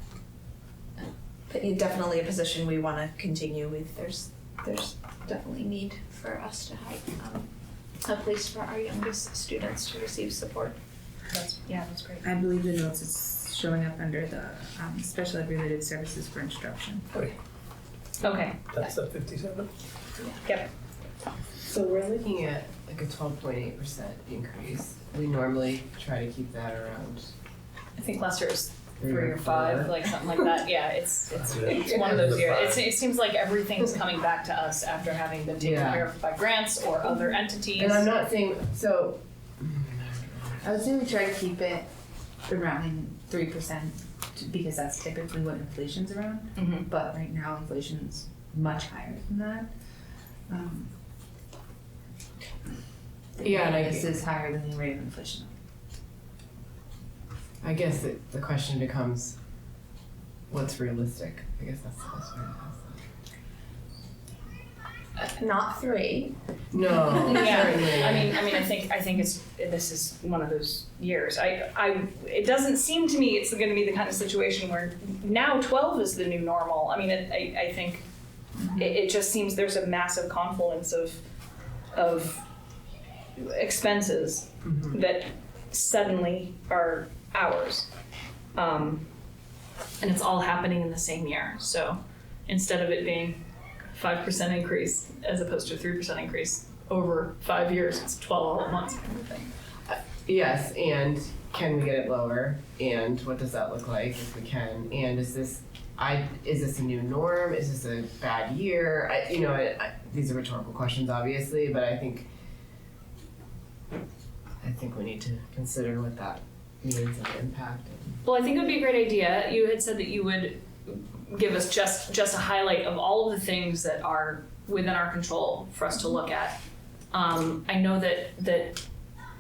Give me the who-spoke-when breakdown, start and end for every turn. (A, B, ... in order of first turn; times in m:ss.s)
0:01.0-0:07.5 A
0:08.0-0:10.8 A
0:11.3-0:12.3 B
0:12.2-0:17.1 C
0:18.2-0:18.6 B
0:18.7-0:19.7 D
0:20.4-0:20.7 B
0:21.6-0:27.3 E
0:28.0-0:38.1 B
0:29.0-0:30.1 E
0:31.4-0:32.8 D
0:35.6-0:36.1 E
0:37.8-0:40.6 E
0:40.6-0:41.9 C
0:42.5-0:49.7 C
0:46.6-0:46.9 B
0:50.5-0:50.9 C
0:53.4-0:55.5 C
0:53.4-0:54.1 E
0:57.6-0:59.4 E
1:00.5-1:03.0 E
1:05.2-1:06.4 A
1:06.7-1:08.4 E
1:07.1-1:07.5 A
1:07.2-1:18.0 B
1:18.6-1:19.0 C
1:18.8-1:21.2 B
1:21.9-1:22.4 B
1:23.4-1:27.9 B
1:24.7-1:24.9 E
1:28.5-1:29.1 B
1:30.0-1:33.4 B
1:33.9-1:39.5 B
1:39.9-1:52.3 E
1:54.6-1:58.2 E
1:58.2-2:06.6 B
2:07.1-2:08.8 B